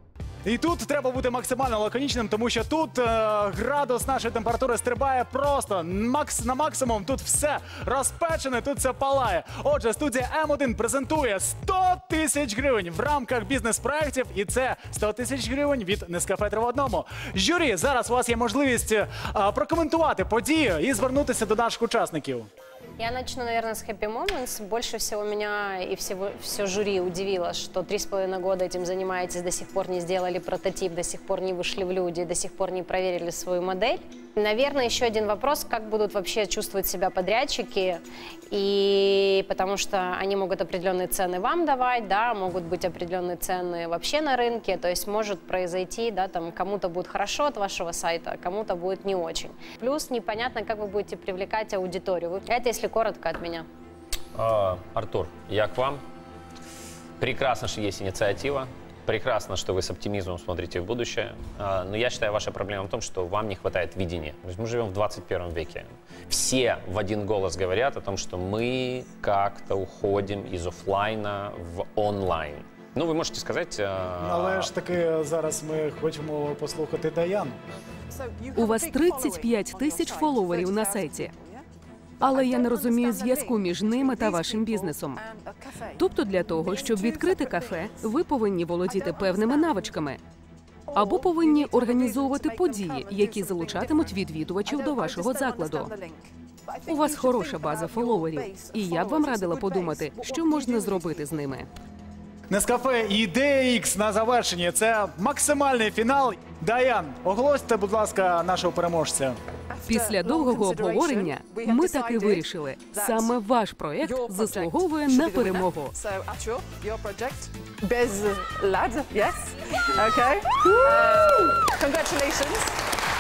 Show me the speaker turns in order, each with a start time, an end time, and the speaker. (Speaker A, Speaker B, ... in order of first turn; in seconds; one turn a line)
Speaker A: 0.4-22.5
Speaker B: 23.0-38.0
Speaker B: 38.5-53.7
Speaker C: 54.4-56.0
Speaker C: 57.2-74.7
Speaker A: 74.2-77.6
Speaker D: 78.1-81.7
Speaker E: 78.6-81.3
Speaker E: 82.2-85.2
Speaker D: 82.2-88.1
Speaker E: 86.0-90.2
Speaker D: 88.8-90.0
Speaker D: 90.9-101.5
Speaker E: 90.9-95.9
Speaker E: 96.9-101.7
Speaker A: 102.5-109.4
Speaker D: 109.7-113.4
Speaker E: 109.9-115.9
Speaker D: 114.0-122.8